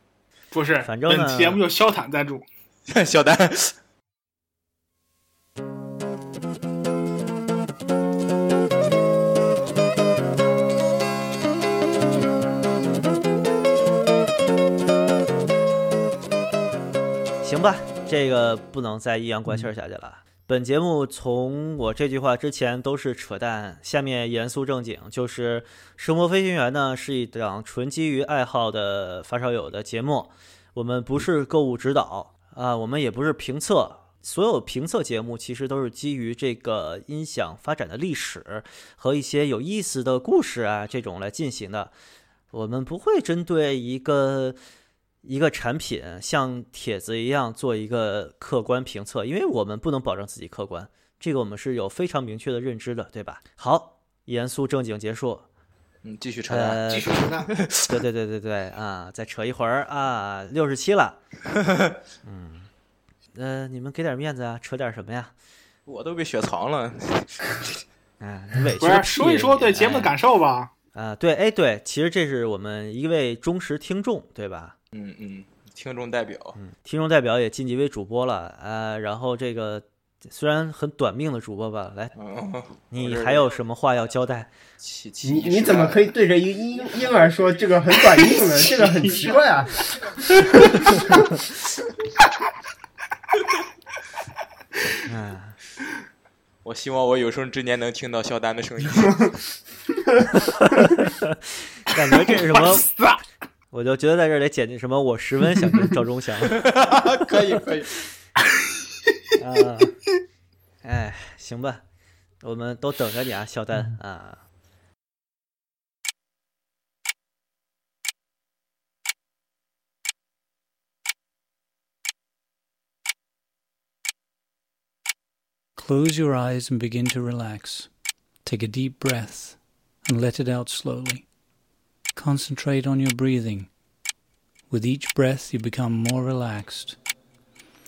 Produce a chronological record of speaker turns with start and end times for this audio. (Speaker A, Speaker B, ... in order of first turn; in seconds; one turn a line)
Speaker A: 0.5-2.5
Speaker B: 0.8-1.6
Speaker C: 2.9-3.7
Speaker B: 17.4-41.9
Speaker B: 42.5-44.6
Speaker B: 45.2-55.5
Speaker C: 56.0-58.0
Speaker B: 56.5-57.2
Speaker A: 56.9-57.5
Speaker B: 57.9-61.2
Speaker B: 62.2-62.7
Speaker B: 63.3-65.3
Speaker C: 65.8-67.8
Speaker B: 68.2-70.1
Speaker A: 68.8-70.7
Speaker B: 70.9-74.7
Speaker C: 74.9-76.6
Speaker B: 76.5-82.1
Speaker C: 82.1-83.5
Speaker B: 82.9-84.5
Speaker C: 84.8-86.1
Speaker D: 85.2-91.2
Speaker A: 88.9-89.4
Speaker B: 95.0-95.6
Speaker C: 96.6-99.4
Speaker B: 100.5-102.9
Speaker A: 102.5-103.2
Speaker B: 103.7-106.6
Speaker C: 106.4-107.9
Speaker B: 109.4-110.0
Speaker B: 110.8-111.8
Speaker B: 112.4-114.4
Speaker E: 125.8-127.9
Speaker E: 128.4-131.3
Speaker E: 132.1-133.7
Speaker E: 134.7-137.0